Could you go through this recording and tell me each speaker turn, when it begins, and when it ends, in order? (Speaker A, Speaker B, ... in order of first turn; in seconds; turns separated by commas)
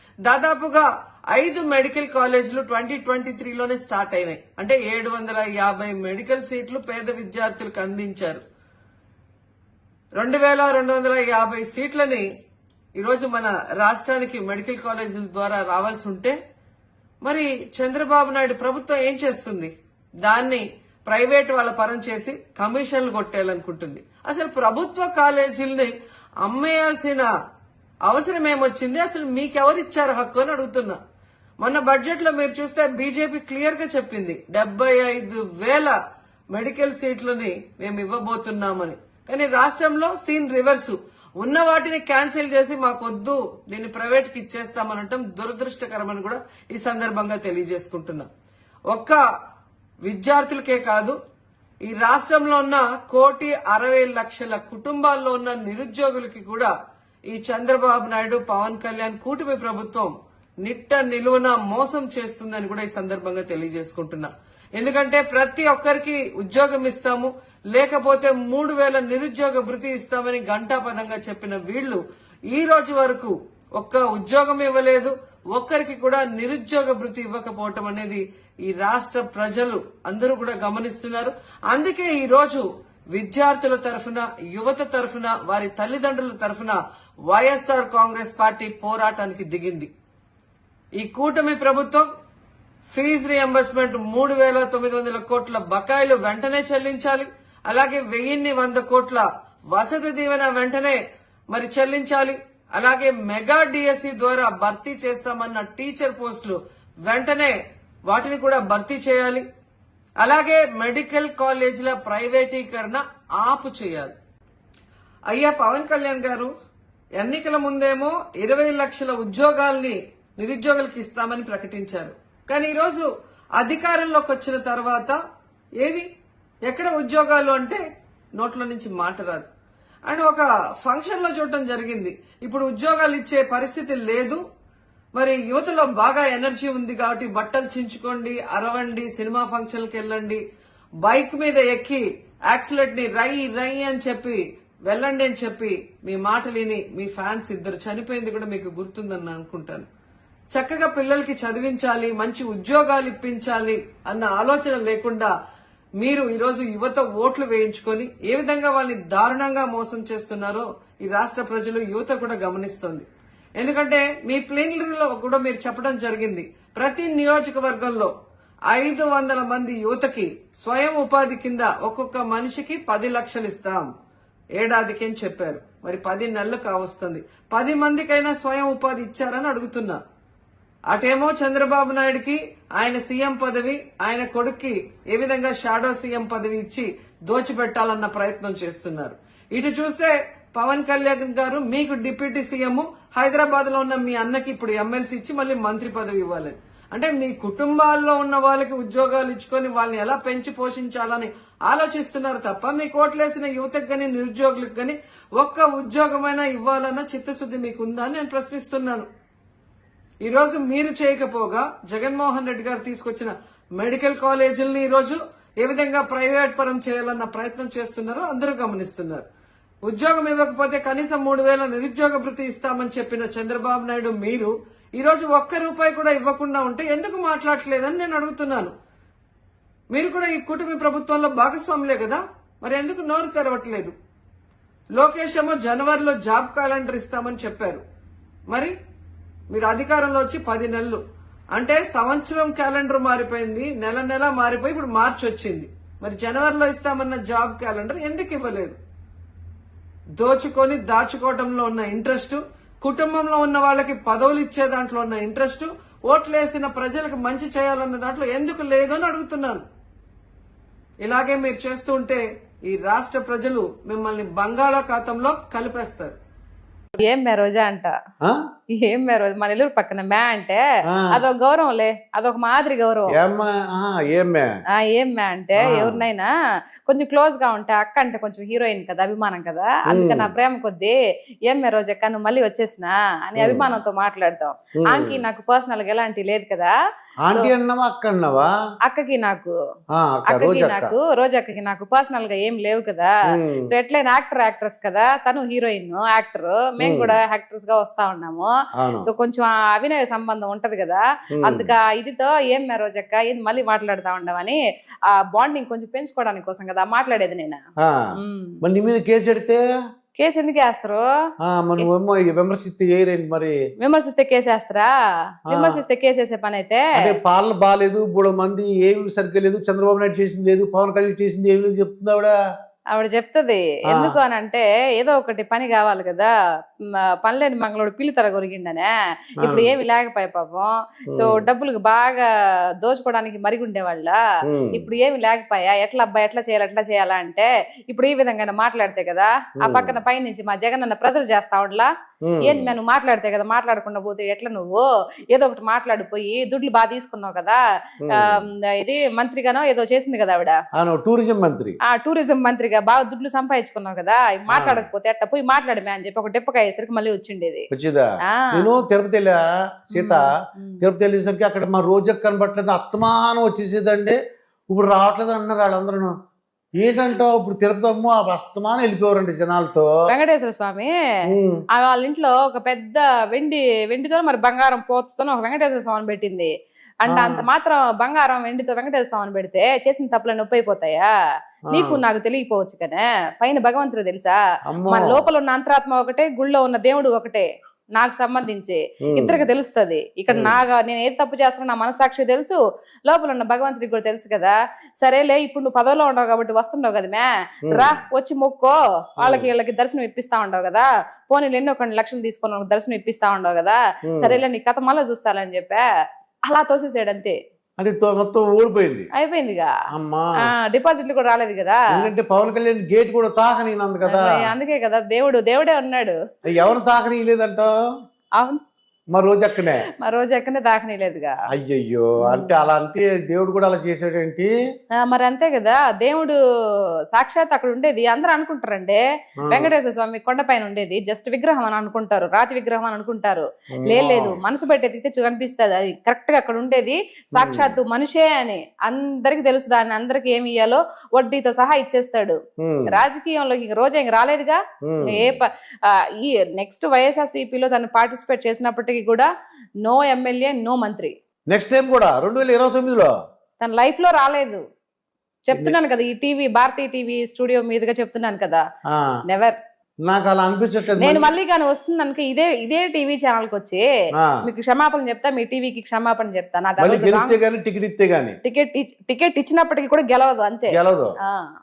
Speaker A: 0.2-8.4, Speaker A: 10.2-12.3, Speaker A: 13.0-16.4, Speaker A: 17.2-19.7, Speaker A: 20.2-27.3, Speaker A: 28.1-31.0, Speaker A: 31.6-36.0, Speaker A: 36.5-48.3, Speaker A: 48.9-49.2, Speaker A: 50.0-51.2, Speaker A: 51.8-56.7, Speaker A: 57.3-60.1, Speaker A: 60.6-89.9, Speaker A: 91.0-92.1, Speaker A: 92.9-101.0, Speaker A: 101.5-109.5, Speaker A: 110.2-114.1, Speaker A: 115.3-116.5, Speaker A: 117.2-123.1, Speaker A: 123.6-125.2, Speaker A: 125.8-126.1, Speaker A: 126.7-127.8, Speaker A: 128.4-129.5, Speaker A: 130.1-134.4, Speaker A: 135.2-140.4, Speaker A: 141.0-149.9, Speaker A: 150.5-155.3, Speaker A: 156.0-163.1, Speaker A: 163.6-168.1, Speaker A: 168.7-173.9, Speaker A: 174.6-180.0, Speaker A: 180.9-209.1, Speaker A: 210.2-219.3, Speaker A: 219.8-228.7, Speaker A: 229.9-233.9, Speaker A: 234.9-237.8, Speaker A: 238.5-238.8, Speaker A: 239.5-241.0, Speaker A: 241.6-248.8, Speaker A: 250.2-259.6, Speaker A: 261.0-266.2, Speaker B: 267.0-267.9, Speaker B: 268.8-270.6, Speaker C: 270.9-271.2, Speaker B: 271.1-273.2, Speaker C: 273.1-274.5, Speaker B: 274.8-276.3, Speaker C: 275.6-276.0, Speaker B: 276.9-286.7, Speaker C: 279.9-280.3, Speaker C: 283.4-283.7, Speaker C: 284.8-285.2, Speaker C: 287.2-288.5, Speaker B: 288.9-289.5, Speaker C: 289.9-290.9, Speaker B: 290.3-293.1, Speaker C: 293.3-293.7, Speaker B: 293.7-304.6, Speaker C: 296.8-297.2, Speaker C: 298.8-299.1, Speaker C: 301.4-301.7, Speaker B: 305.1-307.6, Speaker B: 308.2-308.6, Speaker C: 308.6-309.6, Speaker B: 310.2-311.0, Speaker C: 311.4-313.6, Speaker B: 313.8-314.9, Speaker B: 315.5-317.0, Speaker C: 315.5-315.8, Speaker C: 317.0-322.3, Speaker B: 322.9-326.3, Speaker C: 323.9-324.1, Speaker B: 327.2-332.2, Speaker C: 329.4-329.7, Speaker C: 331.1-331.4, Speaker B: 332.8-334.2, Speaker C: 334.5-334.9, Speaker B: 334.7-341.9, Speaker C: 339.6-340.0, Speaker C: 342.3-342.7, Speaker B: 342.4-350.6, Speaker C: 348.1-348.5, Speaker C: 350.8-351.8, Speaker B: 351.9-357.7, Speaker C: 354.5-354.8, Speaker C: 357.7-360.3, Speaker B: 358.3-358.7, Speaker B: 359.9-360.9, Speaker C: 360.8-364.2, Speaker C: 364.7-366.1, Speaker C: 366.8-369.9, Speaker B: 370.1-370.9, Speaker C: 371.3-371.6, Speaker B: 371.8-376.5, Speaker B: 377.0-381.1, Speaker C: 377.1-377.4, Speaker C: 381.7-382.0, Speaker B: 381.7-392.6, Speaker C: 384.7-385.2, Speaker C: 389.1-389.4, Speaker B: 393.1-405.8, Speaker C: 397.7-398.0, Speaker C: 399.2-399.5, Speaker C: 404.1-404.4, Speaker B: 406.5-407.4, Speaker C: 407.8-409.1, Speaker B: 409.2-409.7, Speaker C: 409.9-410.5, Speaker B: 410.4-411.8, Speaker C: 411.9-414.5, Speaker B: 414.1-416.2, Speaker C: 416.5-417.7, Speaker C: 419.1-419.9, Speaker B: 420.0-421.3, Speaker C: 421.5-424.5, Speaker B: 422.2-422.7, Speaker B: 425.0-426.4, Speaker B: 427.1-429.0, Speaker C: 429.4-429.7, Speaker B: 429.5-442.4, Speaker C: 433.8-434.4, Speaker C: 437.4-437.8, Speaker C: 442.6-443.0, Speaker B: 442.9-449.3, Speaker C: 444.9-445.3, Speaker B: 449.9-451.1, Speaker C: 451.5-453.1, Speaker B: 453.6-454.6, Speaker B: 455.5-458.6, Speaker B: 459.3-459.6, Speaker C: 460.1-461.3, Speaker B: 461.0-463.9, Speaker B: 464.4-467.4, Speaker C: 466.8-468.4, Speaker B: 468.4-470.8, Speaker C: 470.7-471.1